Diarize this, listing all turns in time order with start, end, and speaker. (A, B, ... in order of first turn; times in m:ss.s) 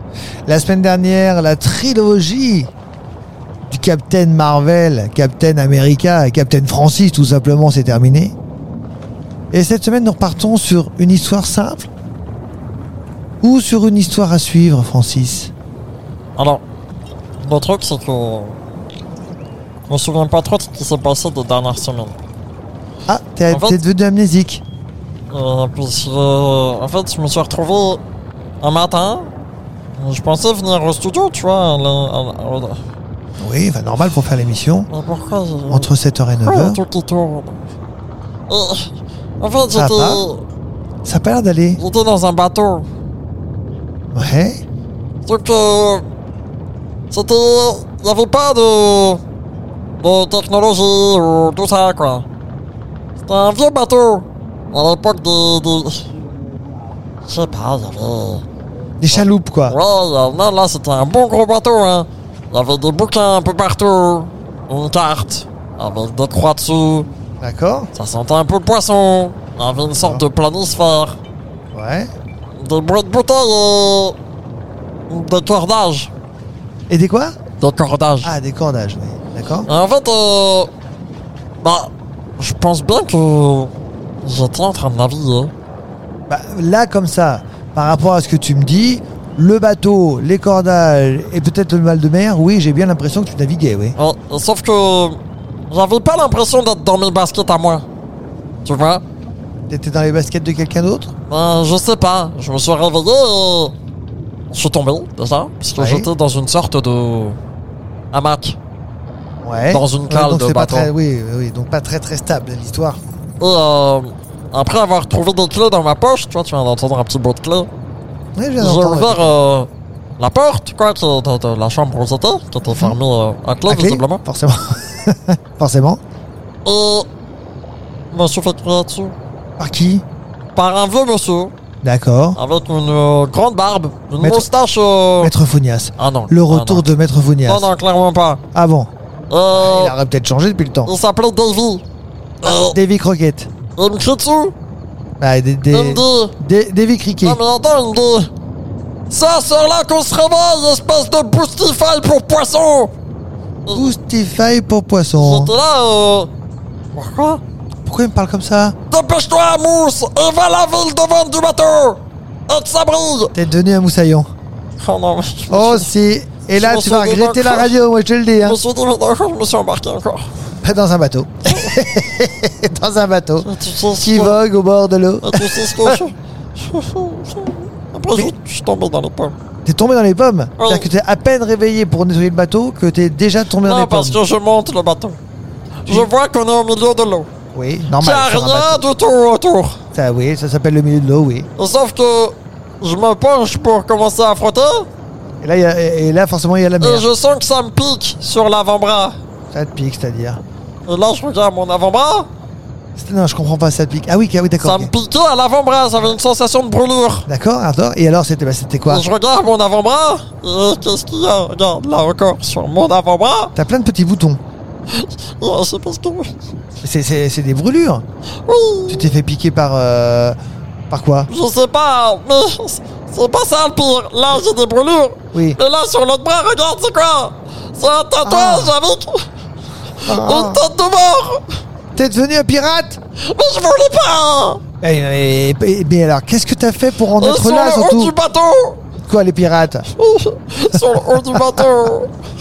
0:00.5-0:02.7 A
0:03.7-0:08.4 A
0:09.5-0:11.9 A
0:13.4-0:15.5 A
0:16.4-0:16.6 B
0:17.4-0:18.6 B
0:19.9-0:22.2 B
0:23.1-0:24.6 A
0:23.5-0:23.8 B
0:25.3-0:28.0 B
0:28.6-0:29.3 B
0:30.0-0:32.8 B
0:33.4-0:34.9 A
0:34.9-0:35.9 B
0:35.7-0:36.8 A
0:36.4-0:37.6 B
0:38.5-0:40.5 B
0:39.7-0:40.2 A
0:41.0-0:41.8 A
0:41.8-0:42.9 B
0:44.1-0:44.6 A
0:45.2-0:46.1 B
0:47.1-0:49.2 B
0:50.0-0:52.3 B
0:53.2-0:56.1 B
0:57.3-0:58.4 B
0:59.0-0:59.8 A
0:59.1-1:07.1 B
1:07.4-1:07.9 A
1:07.9-1:11.2 B
1:10.0-1:10.2 A
1:11.7-1:12.1 A
1:12.6-1:14.2 B
1:15.1-1:16.1 B
1:16.9-1:17.4 A
1:17.6-1:18.3 B
1:18.2-1:19.7 A
1:19.7-1:20.7 B
1:21.6-1:23.7 B
1:24.2-1:25.5 B
1:26.3-1:34.0 A
1:34.0-1:37.8 B
1:38.6-1:39.0 B
1:39.7-1:41.1 A
1:41.3-1:43.7 B
1:44.5-1:47.4 B
1:45.8-1:46.1 A
1:48.1-1:48.6 B
1:49.4-1:53.0 A
1:49.7-1:50.9 B
1:53.4-1:57.7 B
1:58.4-1:59.4 A
1:58.6-2:04.2 B
2:02.7-2:03.0 A
2:03.7-2:06.0 A
2:06.6-2:07.1 B
2:08.1-2:09.1 B
2:09.6-2:10.0 A
2:10.6-2:11.5 B
2:11.8-2:12.4 A
2:12.4-2:15.3 B
2:14.2-2:14.5 A
2:15.2-2:17.7 A
2:16.0-2:16.9 B
2:17.5-2:18.4 B
2:18.5-2:18.9 A
2:19.3-2:19.9 B
2:19.5-2:20.9 A
2:20.9-2:21.8 B
2:22.4-2:22.8 B
2:22.4-2:23.5 A
2:23.8-2:24.5 B
2:25.2-2:27.4 A
2:25.7-2:26.3 B
2:27.2-2:28.3 B
2:29.1-2:32.9 B
2:33.7-2:33.9 B
2:33.7-2:35.5 A
2:35.2-2:36.3 B
2:37.0-2:37.4 B
2:37.9-2:38.8 A
2:38.9-2:43.3 B
2:43.3-2:44.3 A
2:44.8-2:45.9 B
2:45.5-2:48.6 A
2:46.5-2:47.8 B
2:48.4-2:50.3 B
2:50.6-2:56.0 A
2:51.4-2:51.8 B
2:53.4-2:54.4 B
2:55.2-2:59.3 B
2:59.6-3:04.2 A
3:00.6-3:00.9 B
3:03.6-3:05.2 B
3:05.8-3:07.3 B
3:07.5-3:08.9 A
3:07.9-3:09.8 B
3:09.9-3:11.5 A
3:11.6-3:14.9 B
3:15.4-3:17.1 A
3:16.8-3:19.2 B
3:19.5-3:20.4 A
3:20.9-3:22.3 B
3:23.0-3:24.9 A
3:24.6-3:27.3 B
3:27.3-3:29.0 A
3:28.9-3:33.5 B
3:33.6-3:34.4 A
3:34.9-3:36.3 B
3:36.8-3:38.0 A
3:38.5-3:39.1 B
3:38.9-3:40.4 A
3:40.9-3:41.3 A
3:41.3-3:49.3 B
3:48.2-3:48.8 A
3:50.0-3:51.6 B
3:50.1-3:50.6 A
3:51.9-3:53.0 A
3:53.2-3:54.6 B
3:54.8-3:58.1 A
3:57.2-3:58.8 B
3:59.0-3:59.9 A
3:59.9-4:02.1 B
4:00.7-4:01.6 A